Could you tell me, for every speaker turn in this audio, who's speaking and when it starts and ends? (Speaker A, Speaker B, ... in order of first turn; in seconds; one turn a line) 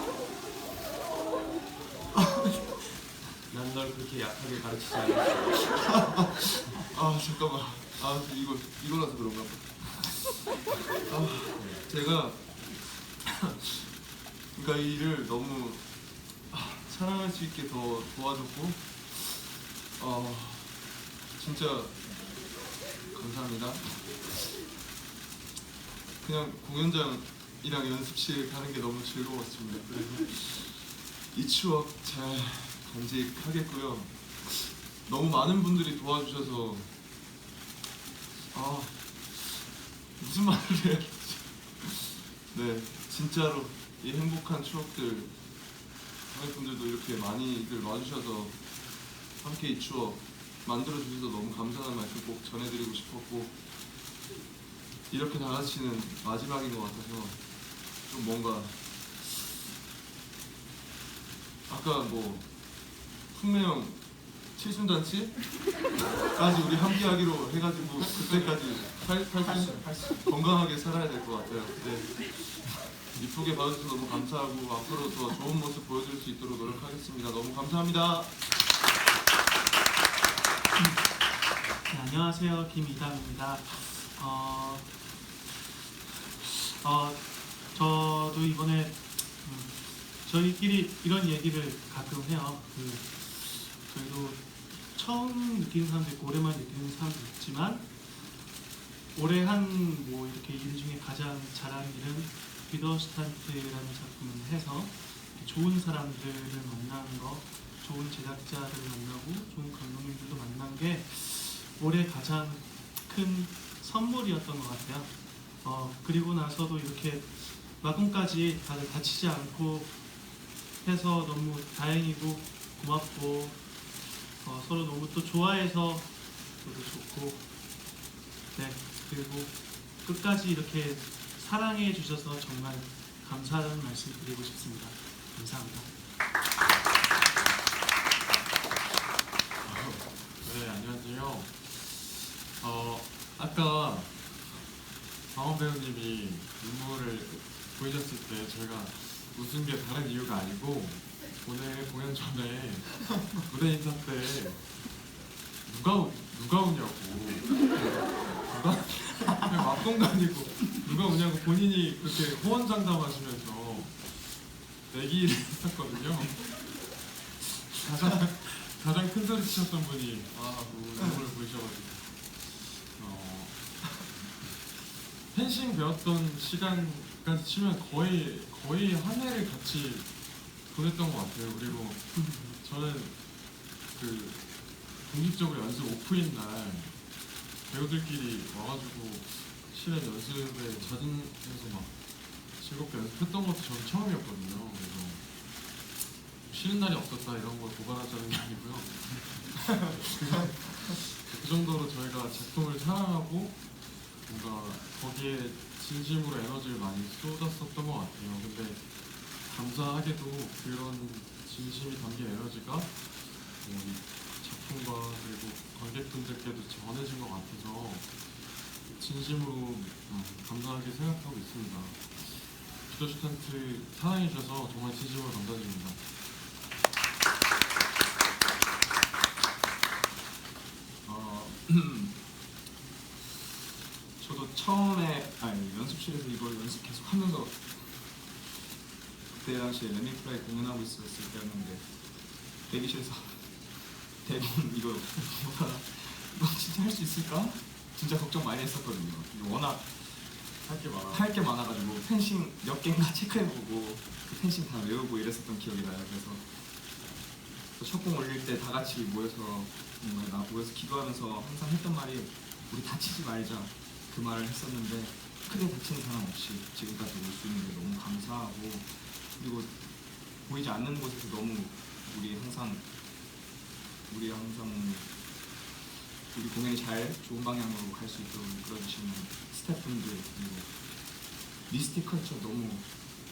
Speaker A: 3.5-6.0
Speaker B: 6.8-13.9
Speaker A: 11.6-11.8
Speaker B: 14.5-15.8
Speaker B: 16.5-20.8
Speaker B: 21.4-22.5
Speaker B: 23.1-24.4
Speaker B: 26.2-36.9
Speaker B: 38.5-45.3
Speaker B: 46.3-48.6
Speaker B: 49.4-53.6
Speaker B: 55.1-57.4
Speaker B: 58.0-59.5
Speaker B: 61.7-62.5
Speaker B: 63.3-64.0
Speaker B: 64.5-65.6
Speaker B: 66.3-78.3
Speaker C: 81.9-84.9
Speaker C: 86.4-97.9
Speaker C: 99.2-120.0
Speaker C: 120.8-123.6
Speaker C: 124.2-127.4
Speaker C: 128.5-135.9
Speaker D: 139.6-144.7
Speaker D: 145.2-154.8
Speaker D: 155.7-166.9
Speaker D: 167.7-174.0
Speaker D: 175.3-195.2
Speaker C: 182.2-182.6
Speaker D: 196.5-226.0
Speaker E: 231.1-232.2
Speaker E: 234.2-238.0
Speaker E: 239.3-241.9
Speaker E: 242.7-243.6
Speaker E: 244.2-250.3
Speaker D: 250.7-251.3
Speaker E: 251.1-256.6
Speaker E: 257.8-269.7
Speaker E: 270.4-272.9
Speaker E: 274.1-275.1
Speaker E: 276.3-280.8
Speaker E: 281.7-282.9